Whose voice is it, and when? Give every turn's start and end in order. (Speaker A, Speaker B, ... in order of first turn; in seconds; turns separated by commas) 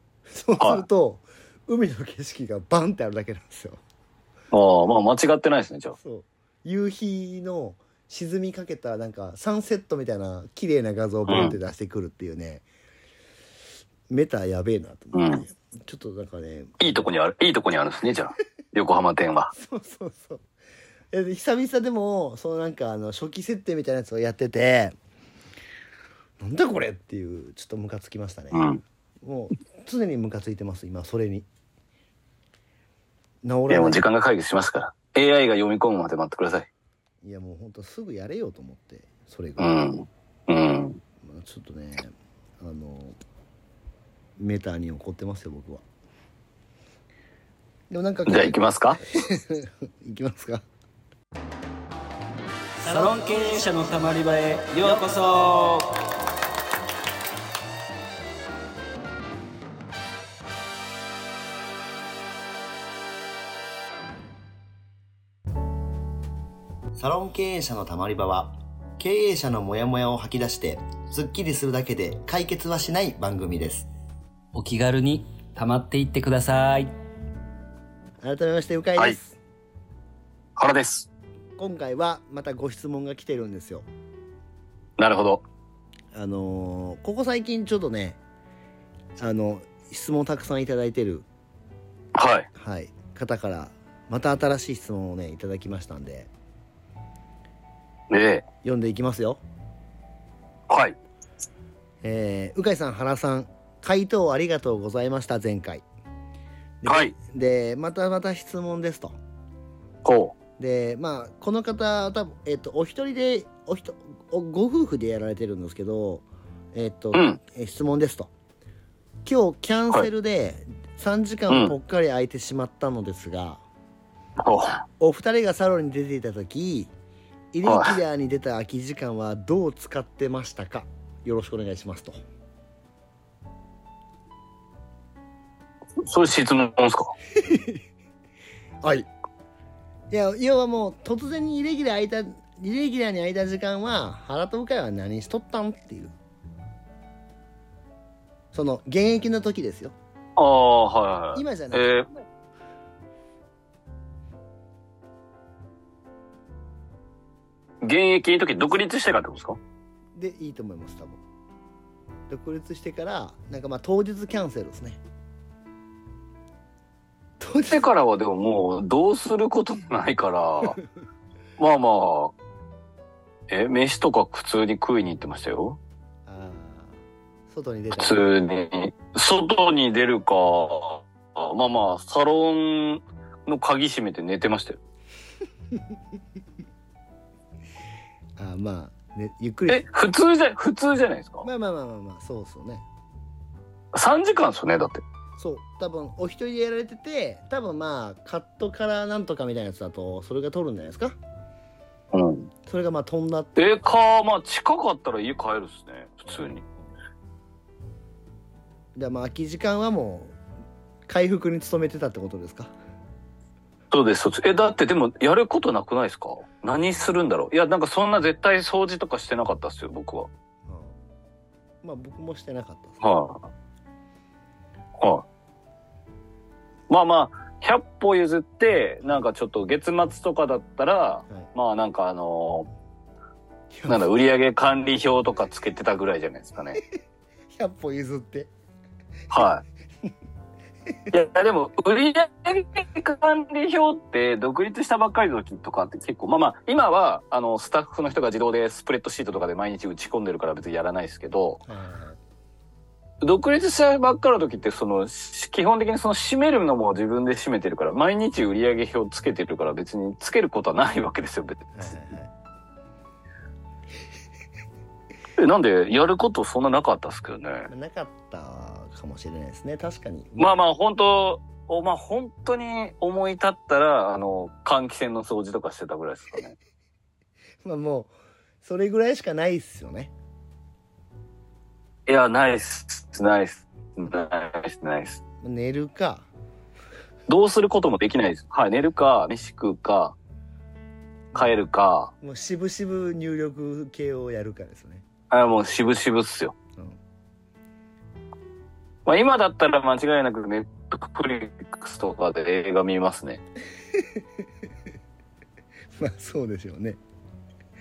Speaker A: 0.3-3.8, Speaker B: 0.6-0.8, Speaker B: 4.5-6.0, Speaker A: 6.0-12.6, Speaker B: 11.3-11.6, Speaker A: 14.1-17.1, Speaker B: 15.1-15.4, Speaker B: 16.8-19.5, Speaker A: 19.5-20.4, Speaker A: 21.1-24.9, Speaker A: 26.4-28.7, Speaker B: 28.5-28.8, Speaker A: 29.2-31.5, Speaker A: 33.4-34.1, Speaker B: 33.7-36.7, Speaker A: 37.2-39.8, Speaker B: 39.6-41.0, Speaker A: 41.2-43.2, Speaker A: 44.4-45.8, Speaker A: 47.9-48.6, Speaker B: 48.3-49.0, Speaker A: 49.1-50.7, Speaker C: 52.8-56.0, Speaker A: 67.0-73.9, Speaker C: 74.5-76.9, Speaker A: 78.2-79.4, Speaker B: 80.6-81.1, Speaker A: 81.6-83.8, Speaker B: 85.0-85.4, Speaker A: 86.1-88.2, Speaker A: 89.2-91.3, Speaker B: 92.2-92.5, Speaker A: 92.5-96.3, Speaker B: 98.1-98.5, Speaker A: 98.6-99.4, Speaker B: 100.7-101.0, Speaker A: 102.0-105.8, Speaker A: 106.8-109.1, Speaker B: 106.9-107.1, Speaker B: 110.0-110.3, Speaker A: 110.6-118.3, Speaker B: 117.1-117.4, Speaker A: 119.2-123.6, Speaker B: 121.5-121.8, Speaker B: 124.4-124.8, Speaker A: 125.0-126.9, Speaker A: 127.5-132.2, Speaker B: 127.7-128.0, Speaker B: 136.0-137.1, Speaker A: 137.3-137.8, Speaker A: 140.1-146.2, Speaker A: 148.5-149.9, Speaker B: 150.4-152.1, Speaker A: 151.3-152.0, Speaker B: 157.8-159.6, Speaker A: 160.2-161.2, Speaker A: 162.3-165.0, Speaker A: 167.4-167.9, Speaker B: 167.7-170.8, Speaker B: 171.6-172.3, Speaker B: 173.5-175.8, Speaker A: 176.3-176.9, Speaker A: 177.5-178.3, Speaker B: 178.0-184.8, Speaker A: 188.4-189.9, Speaker B: 189.7-191.5, Speaker A: 191.4-192.8, Speaker B: 193.9-195.0, Speaker A: 195.4-201.2, Speaker B: 202.1-202.5, Speaker A: 202.7-203.8, Speaker B: 203.6-206.6, Speaker A: 209.0-210.3, Speaker A: 211.1-212.7, Speaker B: 213.9-220.3, Speaker A: 220.7-220.9, Speaker A: 221.8-223.1, Speaker B: 223.0-223.5, Speaker B: 225.0-225.2, Speaker B: 226.9-232.7, Speaker A: 233.7-234.1, Speaker B: 233.9-236.8, Speaker A: 237.6-238.5, Speaker B: 239.3-239.6, Speaker B: 241.1-251.6, Speaker A: 251.7-252.2, Speaker B: 253.2-261.9, Speaker A: 261.8-262.3, Speaker B: 265.4-267.7, Speaker A: 267.7-270.6, Speaker B: 270.4-276.6, Speaker A: 277.6-280.1, Speaker B: 282.1-285.2, Speaker A: 285.4-286.3, Speaker B: 287.3-290.2, Speaker A: 291.3-291.6, Speaker B: 291.4-292.1, Speaker A: 292.2-295.0, Speaker B: 295.3-296.6, Speaker B: 299.1-303.4, Speaker A: 306.0-307.0